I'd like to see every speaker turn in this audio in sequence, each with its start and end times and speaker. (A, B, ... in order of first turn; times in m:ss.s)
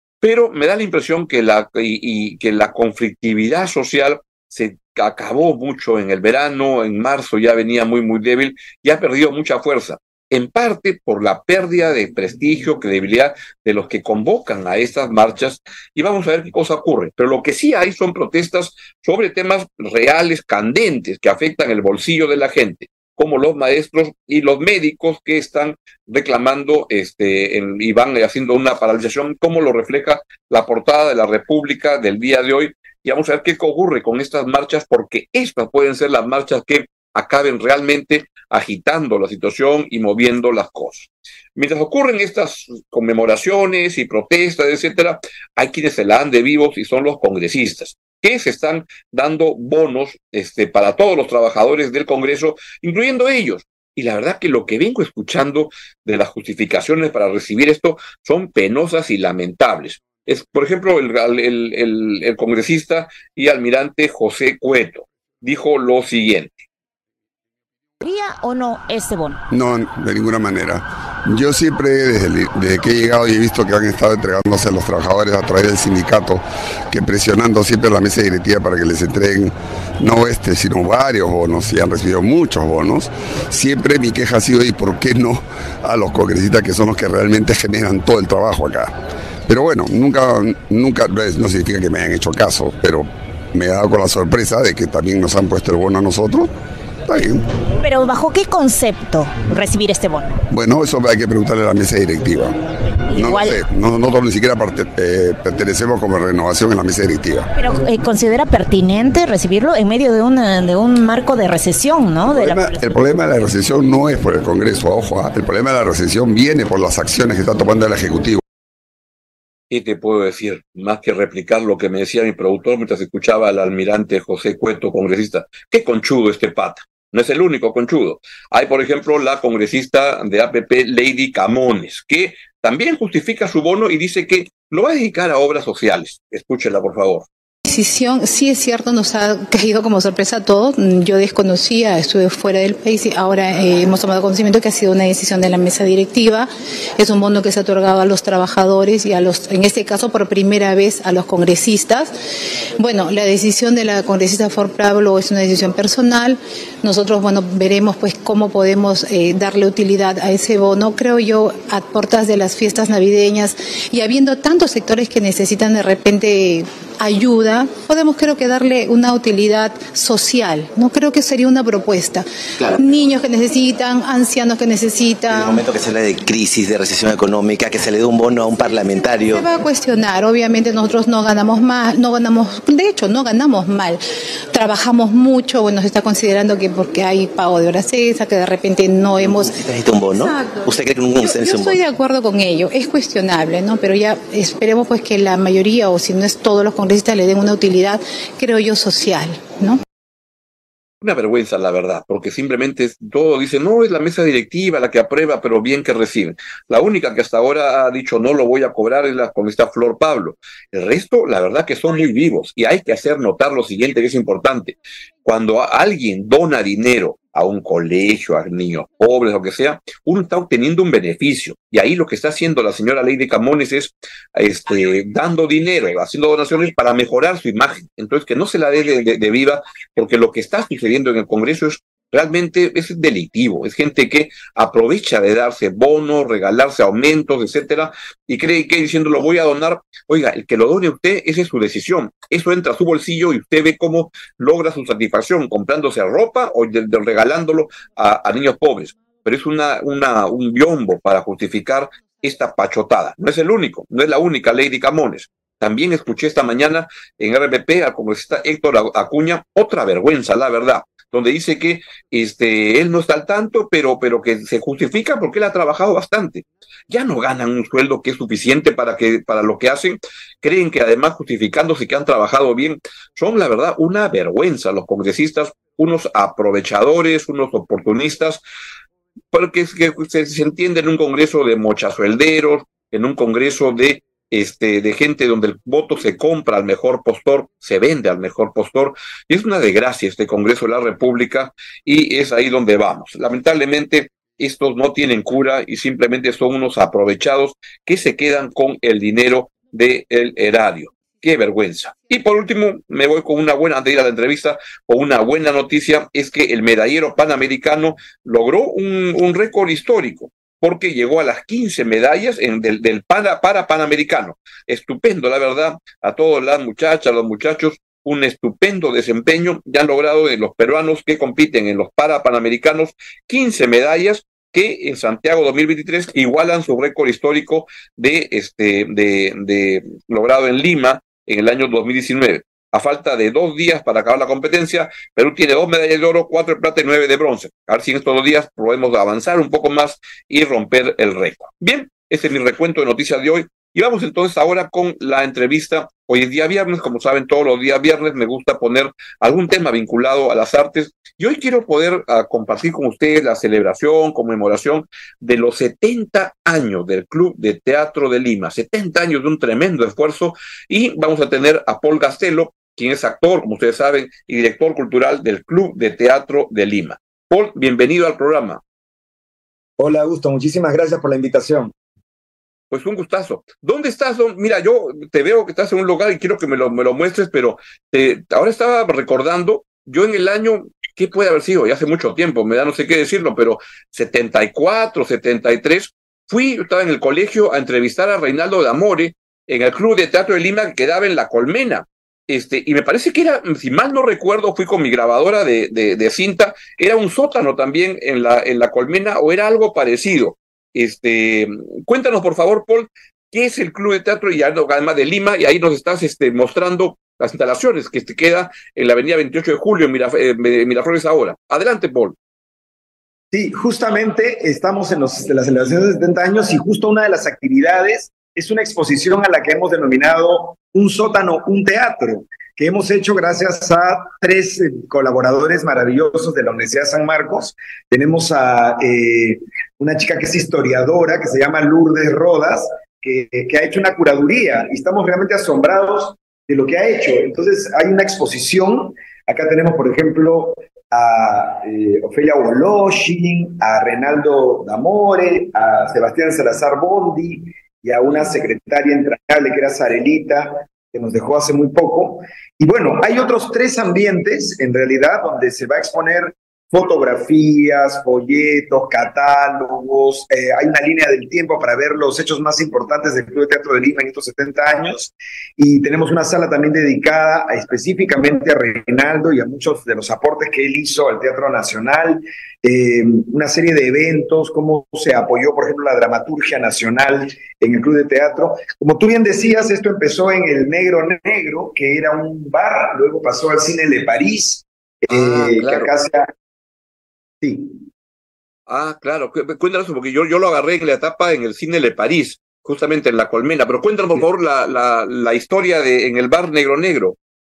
0:00.2-1:06.6 A
1:08.0-1:09.4 B
1:09.5-1:28.9 C
1:29.5-1:36.5 C
1:37.0-1:37.4 C
1:37.8-1:40.4 B
1:40.5-1:42.5 C
1:43.1-1:47.5 C
1:43.1-1:43.6 B
1:47.6-1:52.9 B
1:52.3-1:58.4 C
1:59.7-2:17.3 A
2:17.6-2:32.1 D
2:32.8-2:55.6 D
2:55.3-2:59.4 E
2:58.7-3:04.0 D
3:04.5-3:19.8 D
3:09.2-3:11.8 E
3:21.0-4:38.4 A
4:39.3-6:08.6 A
6:09.8-6:11.7 F
6:12.7-6:52.2 A
6:53.3-8:06.3 F
8:05.1-8:05.9 A
8:07.4-8:07.8 F
8:08.7-8:17.2 A